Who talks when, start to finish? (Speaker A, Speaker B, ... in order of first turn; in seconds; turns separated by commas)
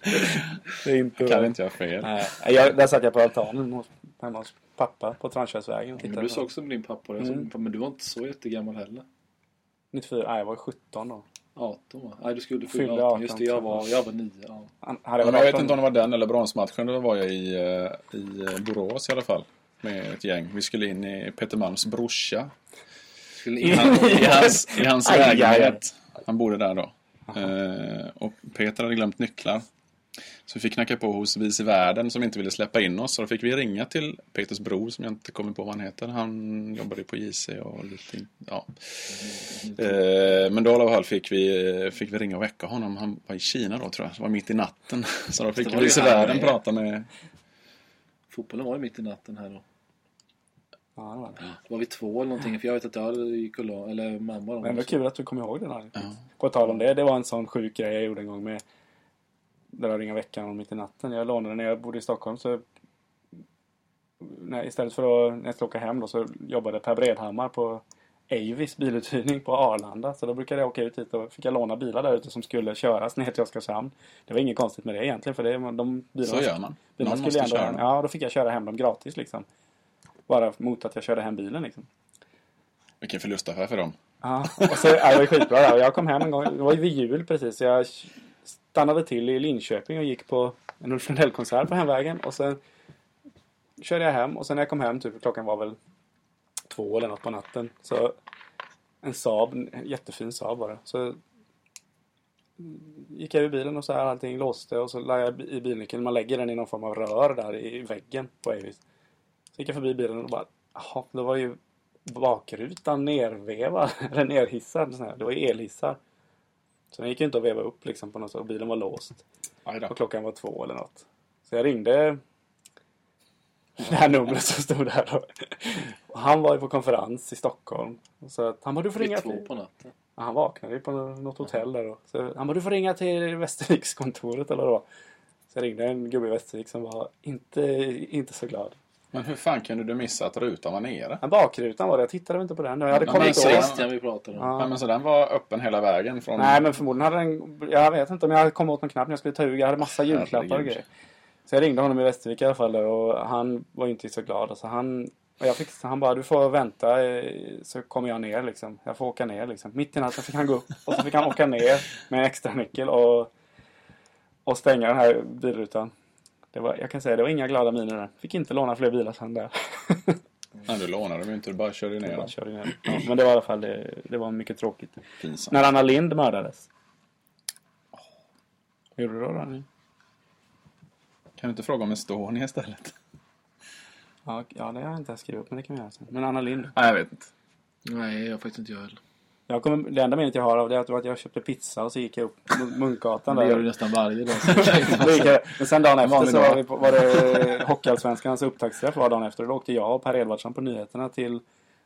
Speaker A: 0.1-6.5, Speaker B: 1.2-2.1, Speaker C: 6.0-9.0, Speaker A: 7.2-7.5, Speaker A: 9.9-11.2, Speaker C: 11.6-14.7, Speaker A: 12.7-13.8, Speaker A: 14.8-15.8, Speaker B: 15.2-22.5, Speaker C: 23.4-24.6, Speaker A: 23.6-25.8, Speaker B: 23.8-29.6, Speaker B: 30.4-47.1, Speaker C: 39.2-39.9, Speaker C: 45.5-46.5, Speaker C: 48.3-49.6, Speaker A: 51.0-51.4, Speaker C: 51.4-55.0, Speaker A: 54.6-58.6, Speaker A: 59.7-62.6, Speaker A: 64.2-79.5, Speaker B: 76.2-77.8, Speaker A: 80.3-81.9, Speaker B: 83.0-84.0, Speaker A: 84.2-88.1, Speaker B: 84.5-85.5, Speaker A: 88.7-92.6, Speaker A: 93.8-95.8, Speaker A: 96.7-98.2, Speaker A: 99.0-101.2, Speaker A: 102.6-108.8, Speaker A: 109.5-116.0, Speaker A: 116.9-119.2, Speaker B: 119.6-119.9, Speaker A: 119.9-122.2, Speaker A: 123.8-129.5, Speaker C: 129.0-129.9, Speaker A: 130.2-134.8, Speaker A: 135.5-138.8, Speaker B: 139.1-141.2, Speaker A: 141.2-143.7, Speaker C: 142.9-144.6, Speaker B: 143.0-143.8, Speaker A: 144.4-144.7, Speaker B: 144.5-146.6, Speaker A: 146.4-150.8, Speaker B: 150.0-150.8, Speaker A: 151.5-163.3, Speaker A: 164.4-165.9, Speaker A: 166.5-170.2, Speaker B: 170.6-172.3, Speaker A: 172.0-176.7, Speaker B: 175.2-175.5, Speaker A: 179.0-179.7, Speaker B: 181.4-182.9, Speaker A: 184.2-186.7, Speaker B: 186.7-187.3, Speaker C: 187.8-189.0, Speaker A: 189.5-193.7, Speaker C: 193.3-195.3, Speaker A: 194.4-201.4, Speaker B: 196.0-196.7